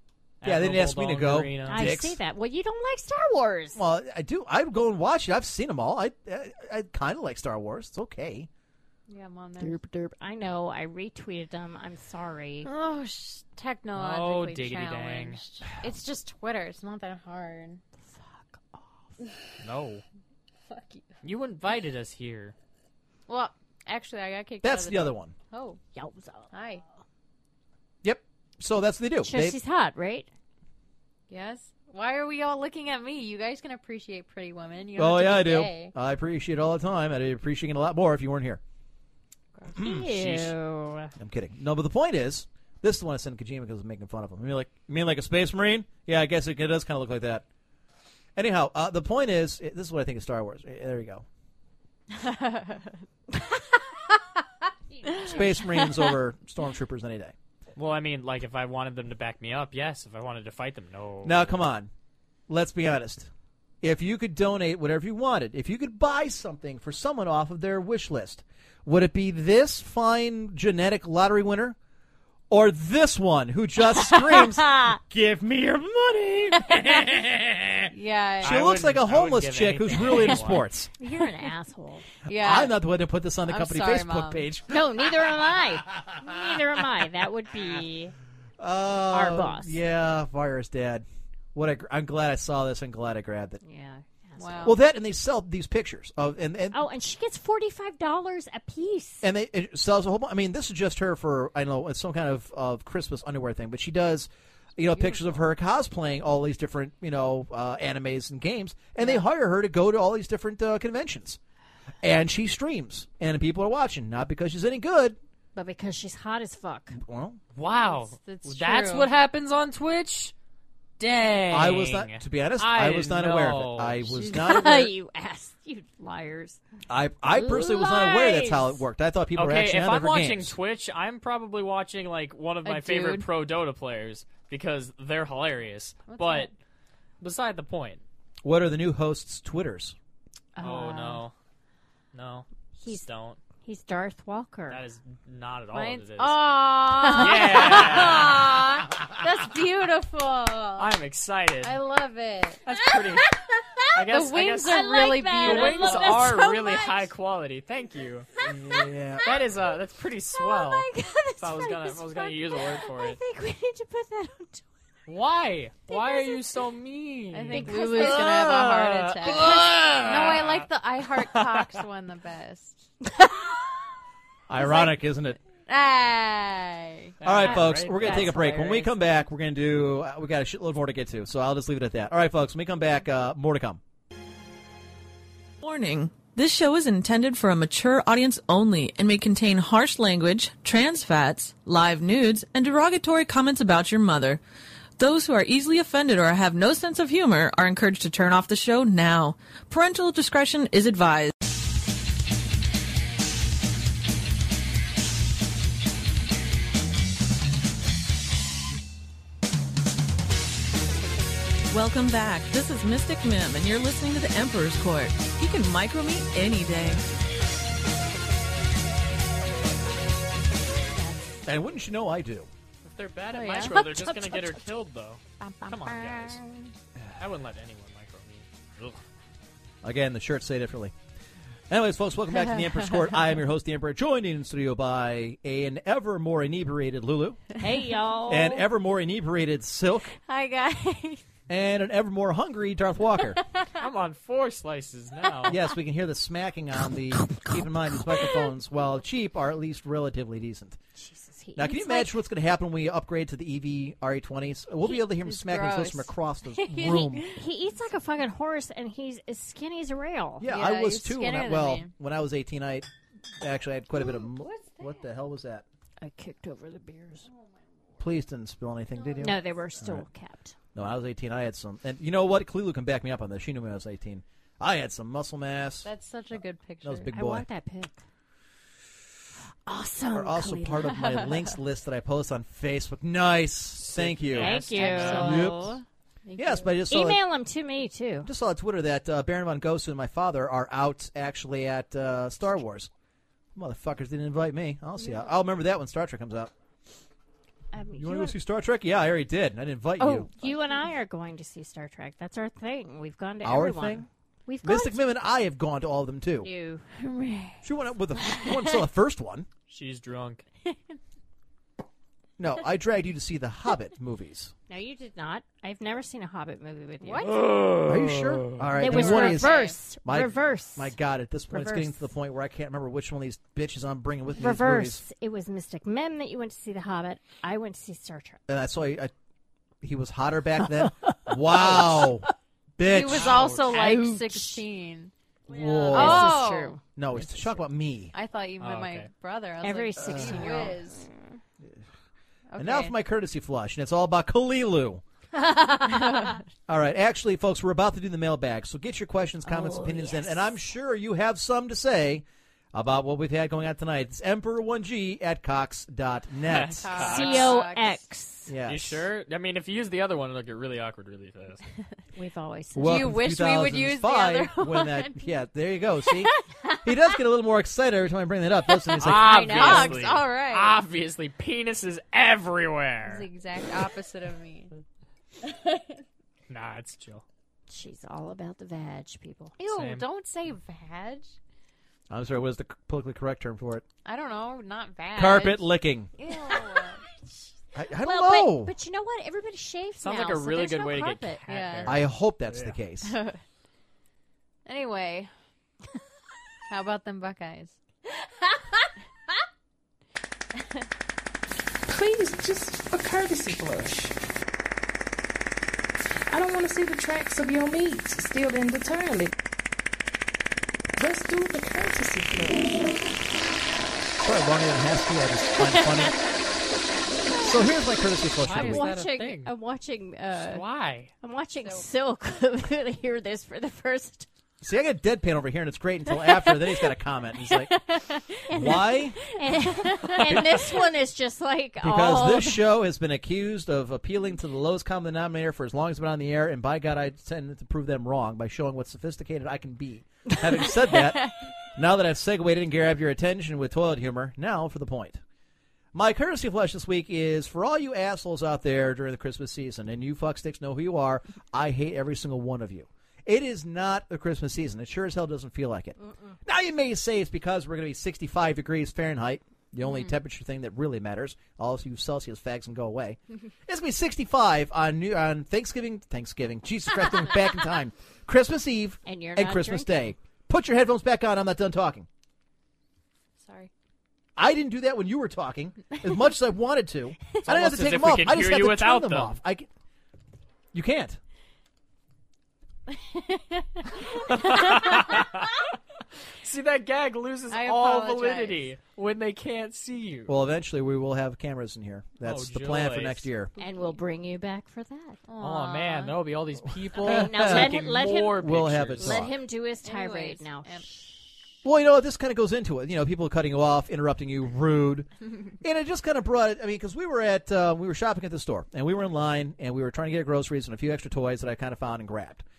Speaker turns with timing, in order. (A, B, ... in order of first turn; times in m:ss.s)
0:00.4-0:01.9 A
0:00.4-0:02.2 B
0:01.7-0:03.8 C
0:03.7-0:08.5 B
0:09.1-0:09.8 D
0:09.6-0:12.7 C
0:12.6-0:17.8 D
0:13.9-0:15.4 A
0:18.0-0:18.8 C
0:19.6-0:20.0 A
0:20.7-0:21.0 D
0:21.2-0:22.5 A
0:23.3-0:25.8 D
0:24.6-0:25.3 B
0:25.9-0:26.5 C
0:26.5-0:26.8 D
0:28.0-0:29.6 B
0:29.2-0:30.3 C
0:31.3-0:35.9 D
0:35.0-0:38.6 B
0:39.7-0:41.1 C
0:39.7-0:40.5 B
0:41.2-0:47.4 B
0:48.4-0:51.2 B
0:52.1-0:53.0 D
0:55.0-0:56.1 D
0:55.2-0:57.3 B
0:57.8-1:01.6 A
1:01.2-1:01.9 B
1:02.5-1:03.3 B
1:03.8-1:11.8 B
1:12.5-1:20.9 B
1:14.1-1:15.0 C
1:17.9-1:18.6 D
1:18.4-1:20.6 A
1:21.0-1:22.0 C
1:22.2-1:22.8 D
1:22.3-1:25.1 B
1:23.4-1:24.4 D
1:24.7-1:28.1 C
1:26.1-1:26.6 B
1:28.6-1:33.6 B
1:29.1-1:29.8 C
1:33.6-1:34.7 C
1:34.4-1:34.8 D
1:34.6-1:36.8 B
1:36.7-1:39.2 C
1:39.2-1:51.4 B
1:52.0-1:55.2 B
1:55.5-1:57.0 C
1:57.0-1:57.4 B
1:57.5-2:00.3 A
1:57.6-1:59.1 D
2:01.0-2:04.2 A
2:01.5-2:04.9 B
2:04.1-2:06.6 C
2:06.9-2:10.5 B
2:07.3-2:08.8 C
2:09.3-2:16.5 A
2:12.6-2:13.3 D
2:16.1-2:16.5 D
2:17.2-2:18.0 A
2:18.4-2:20.0 B
2:20.6-2:21.2 D
2:20.6-2:21.3 A
2:22.1-2:23.4 A
2:22.8-2:23.1 C
2:23.6-2:24.8 C
2:24.7-2:26.6 A
2:25.7-2:30.9 D
2:27.0-2:27.5 C
2:27.1-2:28.5 A
2:30.8-2:31.8 A
2:31.6-2:32.9 D
2:32.6-2:33.3 A
2:33.9-2:38.6 A
2:34.0-2:37.1 D
2:34.7-2:36.5 C
2:38.5-2:39.3 B
2:39.2-2:40.9 A
2:40.3-2:44.6 C
2:41.4-2:43.2 A
2:45.1-2:51.8 A
2:45.9-2:46.4 C
2:47.3-2:52.8 D
2:47.5-2:48.2 C
2:49.4-2:49.6 C
2:53.0-2:53.4 C
2:54.5-2:55.4 B
2:54.6-2:54.9 D
2:55.7-2:57.2 D
2:57.2-2:58.3 A
2:57.2-3:03.8 B
2:57.4-2:58.9 C
3:05.6-3:14.4 E
3:15.0-3:21.3 E
3:31.7-3:37.0 E
3:41.0-3:41.4 C
3:41.4-3:42.5 B
3:42.8-3:46.4 A
3:43.3-3:44.4 D
3:43.7-3:44.0 C
3:45.4-3:46.4 D
3:47.2-3:49.0 A
3:49.8-3:50.9 B
3:51.7-3:57.4 B
3:57.6-3:58.6 C
3:58.3-4:00.1 B
4:00.2-4:01.2 D
4:01.5-4:03.4 B
4:03.8-4:05.6 A
4:05.4-4:10.8 B
4:07.3-4:07.6 C
4:11.0-4:12.2 C
4:11.6-4:17.3 B
4:14.8-4:17.4 D
4:17.3-4:20.5 C
4:20.4-4:22.9 B
4:20.4-4:21.9 D
4:23.4-4:25.6 B
4:24.1-4:25.0 D
4:26.0-4:27.3 C
4:27.3-4:28.1 D
4:28.0-4:30.0 B
4:28.9-4:29.5 D
4:29.2-4:30.6 C
4:30.7-4:35.9 B
4:35.8-4:37.1 D
4:36.8-4:37.4 B
4:37.1-4:38.0 C
4:39.6-4:41.3 C
4:40.1-4:45.8 B
4:41.0-4:41.3 D
4:43.8-4:45.6 A
4:44.4-4:45.8 C
4:44.7-4:45.6 D
4:46.2-4:46.8 D
4:46.4-4:47.2 B
4:46.9-4:48.3 C
4:48.2-4:52.9 B
4:53.5-4:56.5 B
4:57.7-4:58.4 C
4:58.0-5:00.3 B
5:00.0-5:05.0 C
5:00.2-5:00.8 D
5:03.4-5:04.0 B
5:04.6-5:06.5 B
5:06.4-5:06.9 C
5:07.0-5:07.6 D
5:07.6-5:09.5 B
5:09.7-5:10.4 A
5:12.4-5:14.5 B
5:14.7-5:17.3 C
5:17.0-5:17.6 D
5:17.3-5:18.6 A
5:17.8-5:25.0 B
5:18.8-5:20.9 C
5:18.8-5:19.7 D
5:21.5-5:22.0 C
5:24.4-5:28.4 C
5:28.5-5:29.1 B
5:29.8-5:32.3 B
5:32.8-5:33.4 B
5:32.8-5:35.1 D
5:33.1-5:34.0 A
5:33.6-5:34.6 C
5:35.5-5:36.4 B
5:35.7-5:36.8 D
5:35.8-5:36.8 C
5:37.0-5:38.1 B
5:38.1-5:41.1 D
5:38.6-5:39.1 A
5:39.6-5:41.4 C
5:40.0-5:40.7 B
5:42.5-5:42.9 D
5:42.6-5:45.0 B
5:45.3-5:46.4 C
5:45.8-5:46.4 D
5:46.7-5:57.2 B
5:49.4-5:50.5 C
5:56.5-5:57.6 A
5:56.8-5:58.0 D
5:57.0-5:58.5 C
5:58.5-5:59.1 B
5:58.6-6:01.6 A
6:02.2-6:03.1 C
6:02.7-6:06.3 B
6:02.8-6:05.3 D
6:06.8-6:09.7 B
6:09.0-6:13.3 A
6:09.0-6:10.0 C
6:09.4-6:10.8 D
6:13.0-6:14.7 D
6:15.4-6:16.0 D
6:16.5-6:17.2 A
6:17.7-6:19.5 C
6:19.6-6:21.4 D
6:19.7-6:20.0 A
6:22.1-6:23.8 B
6:24.0-6:27.0 D
6:25.1-6:26.1 B
6:27.7-6:28.7 B
6:28.0-6:31.4 C
6:30.0-6:32.8 A
6:31.5-6:32.0 D
6:31.8-6:33.2 B
6:33.0-6:33.4 D
6:34.6-6:35.3 D
6:36.7-6:37.8 D
6:41.9-6:44.1 F
6:46.3-6:49.3 F
6:51.0-6:53.0 F
6:54.2-6:56.2 B
6:55.6-6:56.2 C
6:57.3-6:57.6 C
6:57.4-6:58.9 B
6:58.4-6:59.5 A
6:58.4-7:00.6 C
7:00.4-7:01.1 A
7:01.2-7:04.3 C
7:04.6-7:07.7 B
7:08.4-7:12.6 C
7:08.5-7:09.2 B
7:09.8-7:10.2 D
7:11.8-7:25.2 B
7:25.9-7:52.1 B
7:49.0-7:50.1 C
7:53.4-7:53.7 D
7:54.4-7:59.7 B
7:57.4-7:59.4 A
8:00.7-8:01.2 B
8:04.2-8:05.6 A
8:06.4-8:10.4 A
8:07.5-8:08.7 D
8:10.3-8:13.5 B
8:12.2-8:13.3 A
8:13.6-8:14.0 D
8:13.6-8:15.2 C
8:15.3-8:16.2 D
8:15.4-8:19.3 A
8:16.9-8:19.3 B
8:17.0-8:20.8 C
8:19.8-8:20.9 D
8:21.6-8:25.1 B
8:25.6-8:32.4 B